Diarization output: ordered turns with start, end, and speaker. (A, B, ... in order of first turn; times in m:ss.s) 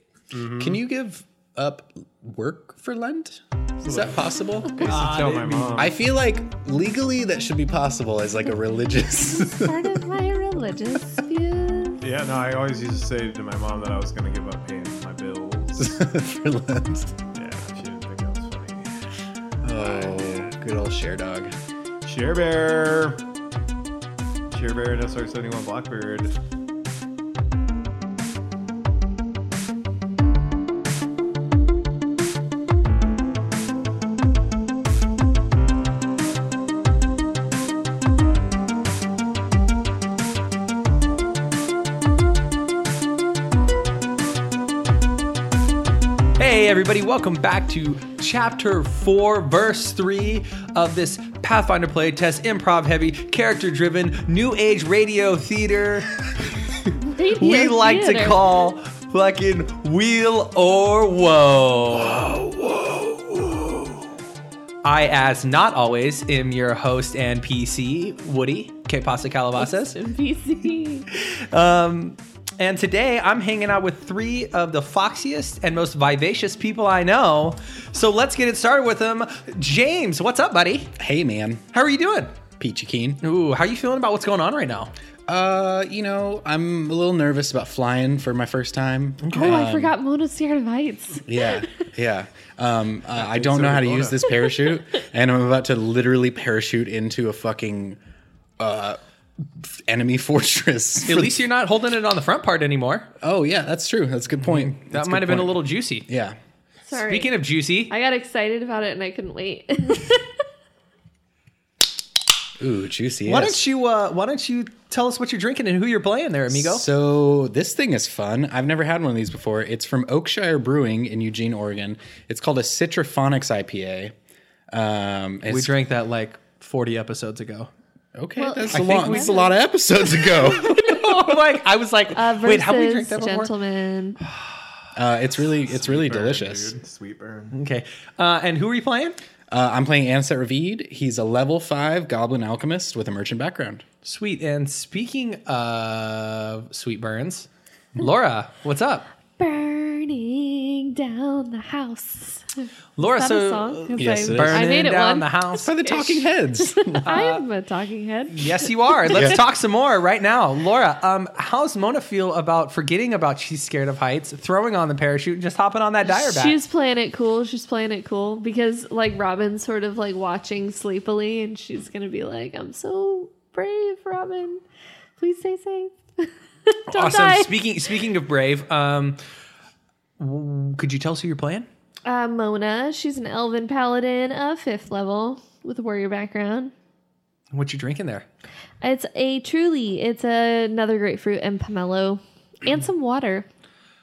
0:00.3-0:00.8 A
0:00.6-0:05.0 B
0:03.8-0:05.9 A
0:04.8-0:05.9 C
0:05.8-0:10.0 B
0:09.2-0:12.0 D
0:12.0-0:16.0 A
0:15.8-0:17.2 B
0:17.3-0:18.9 A
0:19.6-0:21.5 B
0:19.8-0:20.5 A
0:22.0-0:23.2 A
0:24.5-0:26.4 A
0:46.4-0:56.2 C
0:57.0-0:58.5 D
0:57.4-1:02.3 C
1:04.8-1:10.0 C
1:09.6-1:11.1 D
1:11.1-1:20.9 C
1:21.0-1:21.6 B
1:21.7-1:22.3 C
1:22.6-1:23.2 B
1:23.2-1:24.9 C
1:25.3-1:29.9 B
1:29.2-1:29.6 C
1:29.3-1:31.8 D
1:31.2-1:38.0 B
1:33.1-1:34.3 A
1:38.6-1:39.0 B
1:39.6-1:41.4 B
1:41.0-1:43.1 C
1:43.2-1:46.4 B
1:44.4-1:46.0 C
1:46.8-1:50.3 D
1:46.9-1:47.9 C
1:52.6-1:53.6 B
1:53.2-1:56.9 C
1:56.5-2:04.1 B
2:04.7-2:05.7 B
2:05.5-2:07.7 C
2:08.2-2:11.3 B
2:08.4-2:09.4 D
2:08.7-2:09.5 C
2:10.3-2:13.5 C
2:12.1-2:14.2 D
2:14.9-2:16.7 B
2:15.7-2:17.5 A
2:17.5-2:19.2 C
2:19.5-2:23.8 B
2:24.0-2:29.1 C
2:29.4-2:39.3 D
2:33.0-2:35.7 C
2:34.0-2:34.7 B
2:35.6-2:37.1 B
2:37.0-2:37.4 C
2:38.3-2:46.6 C
2:39.1-2:39.4 B
2:46.0-2:54.6 D
2:55.2-2:57.5 D
2:56.9-2:59.2 C
3:00.2-3:01.7 C
3:02.0-3:06.7 D
3:07.5-3:08.2 C
3:08.8-3:13.4 D